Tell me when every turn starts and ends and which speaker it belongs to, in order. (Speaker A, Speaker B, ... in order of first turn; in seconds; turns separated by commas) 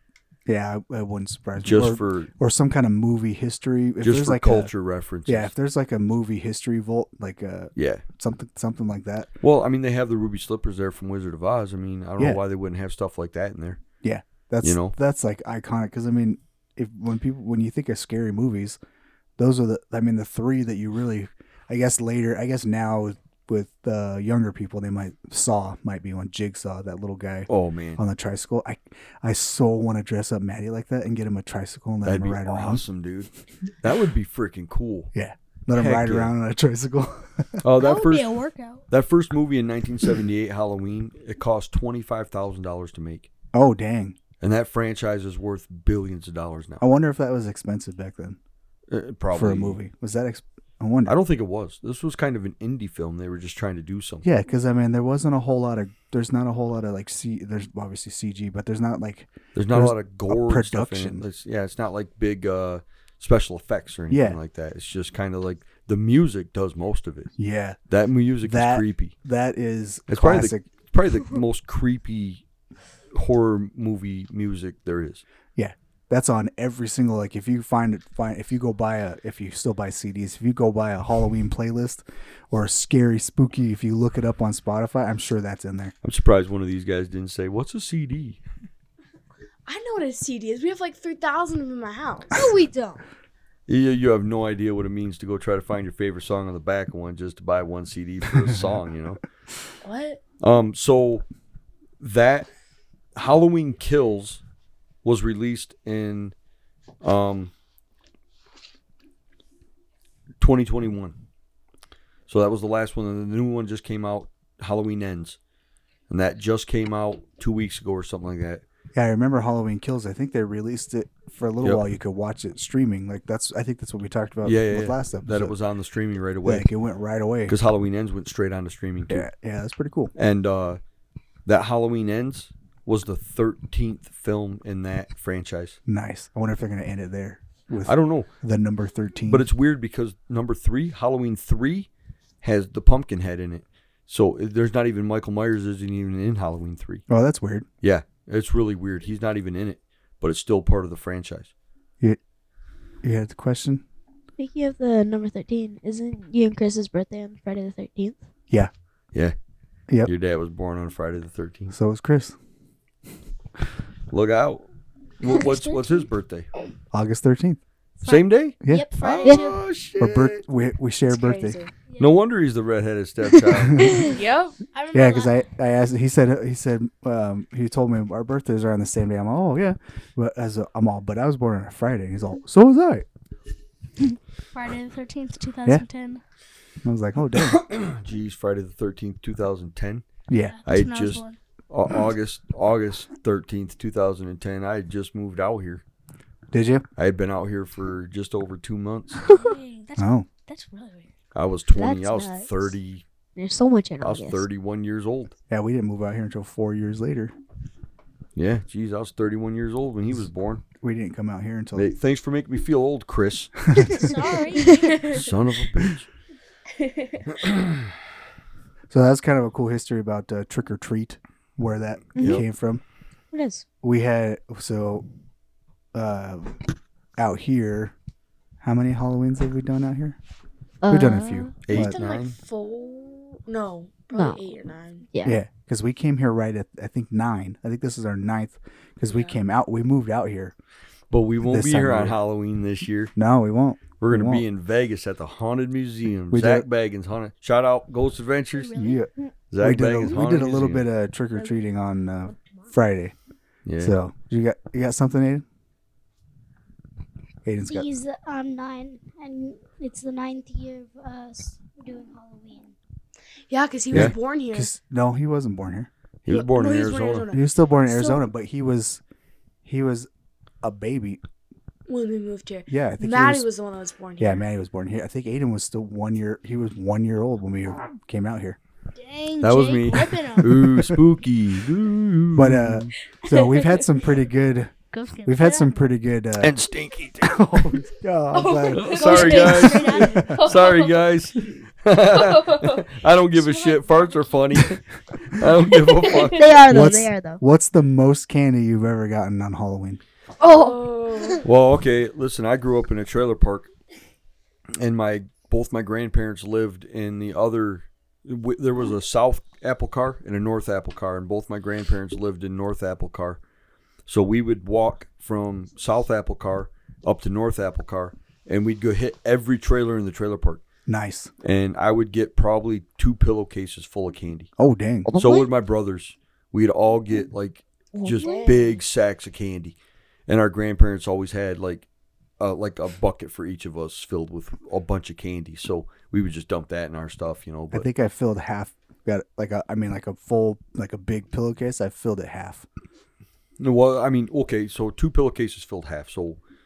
Speaker A: 0.5-4.7, Speaker B: 1.6-2.3, Speaker B: 4.0-5.5, Speaker A: 5.3-9.3, Speaker B: 7.8-8.0, Speaker B: 9.4-13.8, Speaker A: 14.0-18.8, Speaker B: 14.6-15.0, Speaker A: 19.4-32.8, Speaker B: 27.5-28.0, Speaker B: 32.0-33.3, Speaker B: 33.8-35.1, Speaker A: 35.1-37.6, Speaker B: 35.7-36.3, Speaker B: 37.6-38.3, Speaker C: 37.8-38.8, Speaker B: 38.9-43.3, Speaker A: 43.5-44.2, Speaker B: 44.4-46.8, Speaker A: 46.8-48.4, Speaker B: 48.9-49.8, Speaker A: 49.3-51.1, Speaker B: 51.0-54.3, Speaker A: 54.2-61.2, Speaker B: 59.5-67.3, Speaker A: 64.1-64.4, Speaker A: 67.4-67.8, Speaker B: 67.9-69.1, Speaker A: 68.4-70.7, Speaker B: 70.1-72.4, Speaker B: 73.1-75.2, Speaker A: 75.5-85.9, Speaker B: 86.0-88.4, Speaker D: 89.7-92.6, Speaker E: 92.4-93.0, Speaker B: 93.7-99.2, Speaker D: 99.8-100.2, Speaker B: 100.4-101.2, Speaker B: 102.0-102.5, Speaker B: 103.1-104.4, Speaker B: 105.0-106.3, Speaker B: 107.0-107.5, Speaker B: 110.4-111.1, Speaker B: 112.3-115.4, Speaker B: 116.1-118.6, Speaker A: 118.9-125.5, Speaker B: 124.4-126.7, Speaker A: 126.5-127.5, Speaker B: 127.5-129.3, Speaker A: 129.1-130.1, Speaker B: 130.1-130.8, Speaker B: 131.4-135.8, Speaker A: 135.9-139.5, Speaker B: 137.8-138.3, Speaker B: 139.3-141.9, Speaker B: 142.4-147.0, Speaker A: 147.1-147.7, Speaker B: 147.8-151.5, Speaker A: 153.0-153.8, Speaker E: 154.4-158.2, Speaker B: 160.0-161.7, Speaker A: 161.7-162.4, Speaker B: 164.1-164.7, Speaker B: 165.2-166.5, Speaker A: 166.9-167.6, Speaker B: 168.0-170.4, Speaker C: 168.0-169.6, Speaker A: 170.0-171.6, Speaker D: 171.1-171.7, Speaker B: 172.0-173.9, Speaker A: 173.6-174.0, Speaker D: 174.0-174.6, Speaker C: 174.7-175.4, Speaker A: 174.9-183.1, Speaker C: 184.5-186.2, Speaker A: 186.8-187.6, Speaker B: 187.3-190.0, Speaker A: 190.3-190.6, Speaker C: 190.5-191.4, Speaker B: 190.7-195.8, Speaker A: 196.5-196.9, Speaker B: 196.9-199.2, Speaker E: 199.2-199.5, Speaker C: 199.3-201.1, Speaker A: 200.0-200.3, Speaker B: 201.3-203.0, Speaker E: 201.7-202.7, Speaker E: 203.4-204.4, Speaker B: 204.0-205.3, Speaker A: 205.5-207.3, Speaker B: 208.4-210.6, Speaker A: 210.8-211.9, Speaker B: 211.7-213.7, Speaker C: 213.9-215.2, Speaker E: 213.9-215.0, Speaker D: 214.9-215.2, Speaker B: 215.0-216.1, Speaker D: 216.8-217.2, Speaker B: 217.3-217.9, Speaker A: 218.9-222.8, Speaker B: 222.2-222.4, Speaker E: 222.2-222.4, Speaker E: 223.3-223.6, Speaker A: 223.8-225.1, Speaker A: 225.9-226.6, Speaker A: 227.2-227.9, Speaker A: 228.6-230.2, Speaker E: 230.8-231.5, Speaker A: 230.9-231.9, Speaker B: 231.6-232.3, Speaker D: 231.7-235.1, Speaker E: 234.1-234.4, Speaker E: 235.1-235.4, Speaker A: 235.2-240.5, Speaker D: 239.1-239.4, Speaker B: 241.1-243.1, Speaker A: 241.4-242.2, Speaker A: 243.2-244.4, Speaker B: 244.0-248.7, Speaker A: 246.3-246.7, Speaker C: 248.5-249.0, Speaker A: 248.7-253.1, Speaker B: 249.5-250.9, Speaker B: 253.7-254.0, Speaker A: 253.8-255.4, Speaker A: 257.4-257.9, Speaker F: 257.7-262.7, Speaker D: 263.5-264.7, Speaker A: 263.9-265.9, Speaker B: 266.2-267.3, Speaker D: 266.3-267.4, Speaker A: 267.3-269.0, Speaker A: 269.6-270.1, Speaker A: 270.6-271.2, Speaker D: 271.9-274.4, Speaker A: 272.7-273.5, Speaker A: 274.2-278.6, Speaker C: 278.9-280.9, Speaker B: 279.4-282.9, Speaker A: 282.4-284.7, Speaker D: 283.2-284.0, Speaker C: 284.9-285.9, Speaker A: 285.2-286.6, Speaker B: 286.4-287.8, Speaker A: 287.2-289.4, Speaker D: 288.3-291.0, Speaker B: 288.7-296.6, Speaker C: 288.9-290.8, Speaker A: 290.0-290.4, Speaker D: 292.1-294.4, Speaker D: 296.0-296.6, Speaker E: 296.2-297.4, Speaker A: 296.7-300.0, Speaker D: 300.4-301.4, Speaker E: 300.4-300.8, Speaker B: 301.4-303.7, Speaker B: 304.7-313.4, Speaker B: 314.1-320.6, Speaker A: 320.9-321.3, Speaker B: 321.4-324.5, Speaker A: 324.6-325.1, Speaker E: 325.1-325.5, Speaker B: 325.1-329.8, Speaker E: 327.9-328.5, Speaker D: 328.1-328.7, Speaker B: 330.3-331.9, Speaker B: 332.4-337.9, Speaker A: 337.7-342.7, Speaker B: 343.6-346.4